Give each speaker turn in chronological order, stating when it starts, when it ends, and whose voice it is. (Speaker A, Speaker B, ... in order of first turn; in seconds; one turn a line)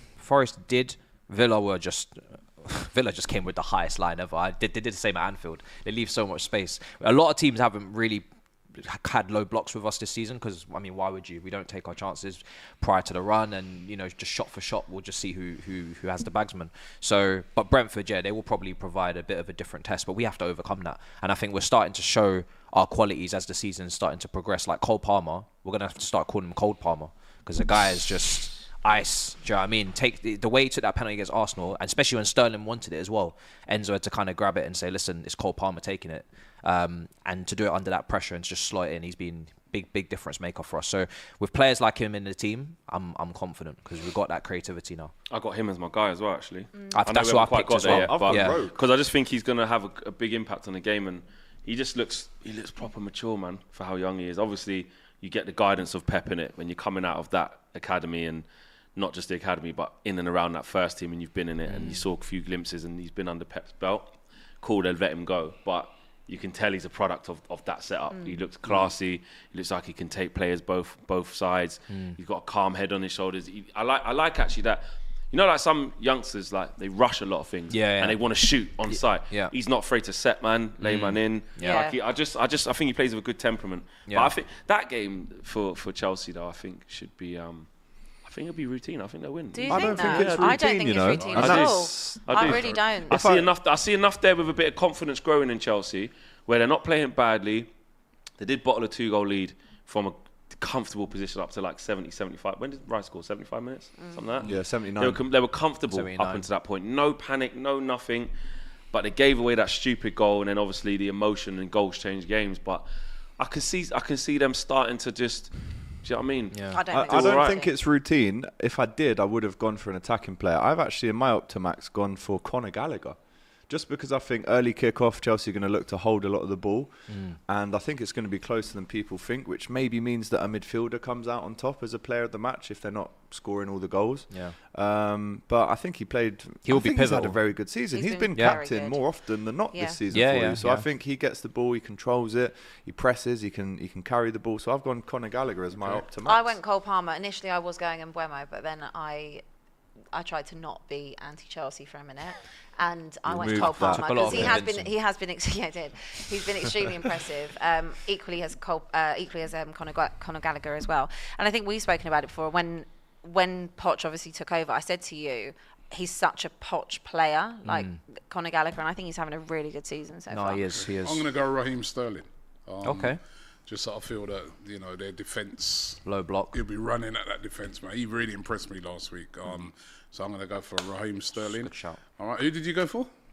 Speaker A: 0.2-45.1
Speaker B: 45.3-87.7
Speaker A: 46.9-48.6
Speaker C: 47.8-48.8
Speaker A: 61.7-62.0
Speaker D: 68.1-68.4
Speaker A: 71.9-72.2
Speaker A: 77.7-78.2
Speaker A: 78.9-79.5
Speaker A: 80.8-81.8
Speaker D: 81.6-82.0
Speaker A: 84.1-84.3
Speaker B: 88.2-90.5
Speaker D: 89.5-93.2
Speaker C: 89.7-93.5
Speaker B: 91.3-97.7
Speaker B: 98.4-108.3
Speaker D: 104.0-104.2
Speaker C: 104.4-105.2
Speaker A: 105.9-106.5
Speaker B: 108.9-112.9
Speaker B: 113.4-115.5
Speaker B: 116.0-117.6
Speaker A: 116.5-116.8
Speaker D: 116.7-117.7
Speaker C: 116.9-123.2
Speaker C: 123.7-126.9
Speaker A: 127.1-127.4
Speaker C: 127.5-146.6
Speaker A: 134.3-134.6
Speaker A: 136.7-137.4
Speaker D: 137.9-139.0
Speaker A: 138.3-138.6
Speaker D: 139.7-140.0
Speaker A: 140.1-140.8
Speaker D: 146.2-149.4
Speaker D: 150.1-170.7
Speaker C: 153.2-154.6
Speaker A: 153.5-154.9
Speaker A: 167.7-168.0
Speaker A: 170.3-171.2
Speaker E: 170.8-176.0
Speaker A: 172.8-173.2
Speaker A: 176.1-176.6
Speaker E: 176.5-183.1
Speaker A: 181.4-182.0